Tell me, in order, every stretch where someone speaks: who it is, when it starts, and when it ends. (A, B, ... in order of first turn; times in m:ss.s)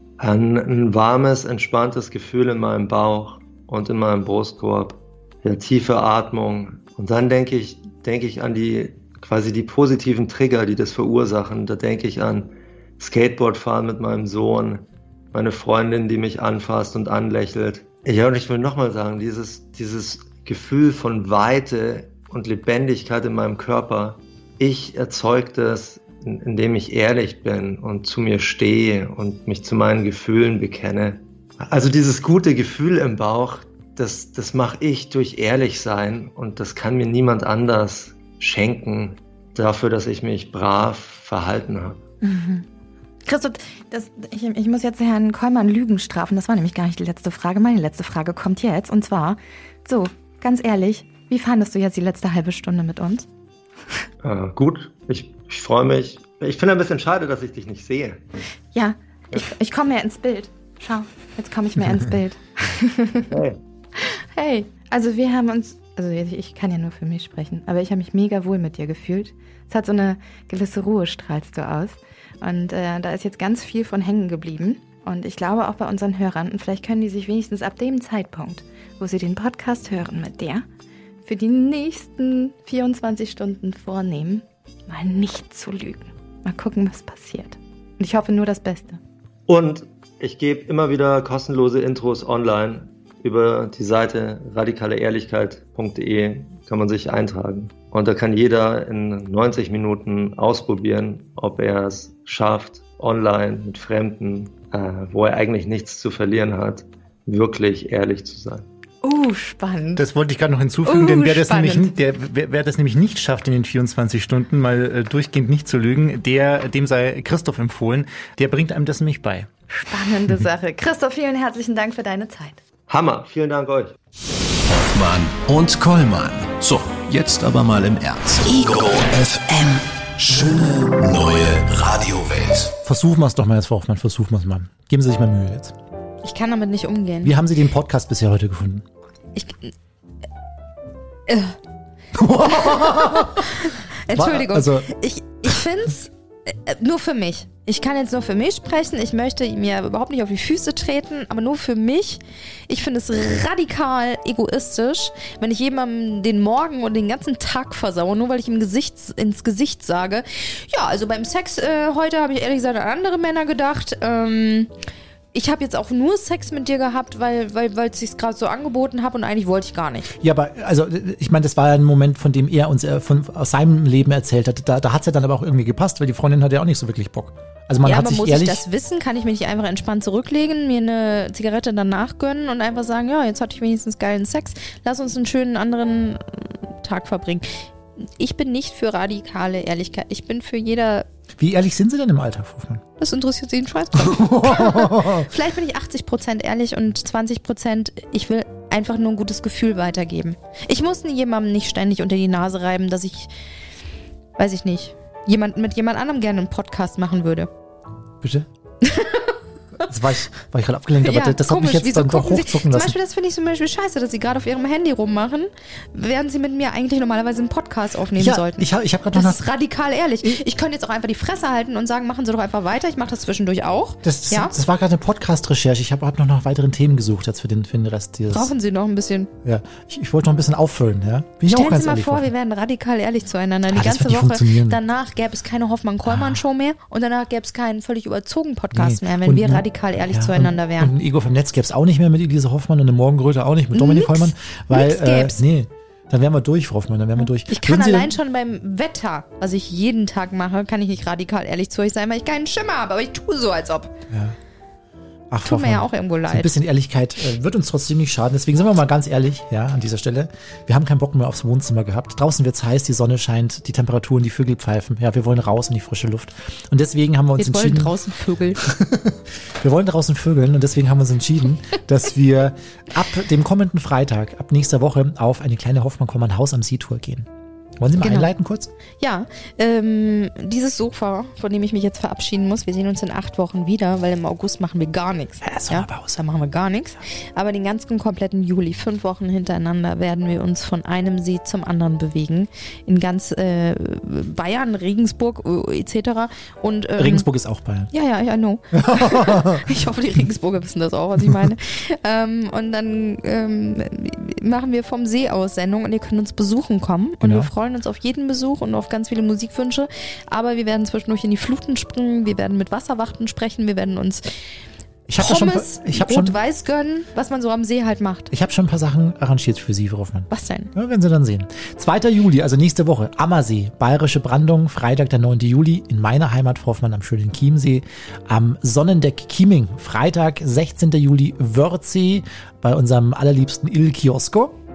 0:00.2-0:42.0 A
0:42.2-0:42.7 B
0:43.2-0:53.3 B
0:54.2-0:58.2 A
0:58.7-1:03.4 B
1:03.3-1:03.6 A
1:04.0-1:20.6 B
1:21.2-1:29.0 B
1:29.5-1:48.7 A
1:49.0-1:50.0 B
1:50.0-1:59.5 C
1:50.8-1:52.0 B
1:59.7-2:02.6 B
2:02.9-2:04.0 A
2:04.7-2:12.7 D
2:12.8-2:15.8 E
2:16.2-2:17.4 F
2:17.2-2:18.8 E
2:19.4-2:19.7 F
2:21.3-2:21.6 F
2:22.2-2:23.6 E
2:22.7-2:23.0 F
2:24.1-2:44.7 F
2:24.1-2:24.9 E
2:45.3-2:50.1 F
2:50.2-2:58.6 E
2:57.8-3:07.6 F
3:08.2-3:11.1 F
3:11.4-3:12.8 E
3:13.0-3:23.3 F
3:14.0-3:15.3 E
3:24.4-3:27.5 F
3:28.2-3:28.5 E
3:28.8-3:29.3 F
3:29.9-3:33.0 E
3:31.0-3:44.5 F
3:38.2-3:39.4 E
3:44.0-3:48.5 E
3:48.3-3:49.3 F
3:49.4-3:52.3 E
3:51.5-4:00.9 F
3:53.7-3:54.8 E
3:56.1-3:56.4 E
3:58.7-4:08.2 E
4:03.7-4:05.4 F
4:07.2-4:14.0 F
4:14.1-4:14.4 E
4:15.3-4:27.9 E
4:15.4-4:16.5 F
4:27.4-4:28.6 F
4:28.6-4:37.3 E
4:37.8-4:38.7 E
4:38.0-4:38.3 F
4:39.0-4:57.3 F
4:45.4-4:46.2 E
4:57.0-4:57.9 E
4:57.9-5:14.3 F
4:58.8-4:59.7 E
5:07.2-5:07.5 E
5:15.1-5:16.4 E
5:15.2-5:18.3 F
5:18.3-5:34.6 E
5:20.3-5:20.7 F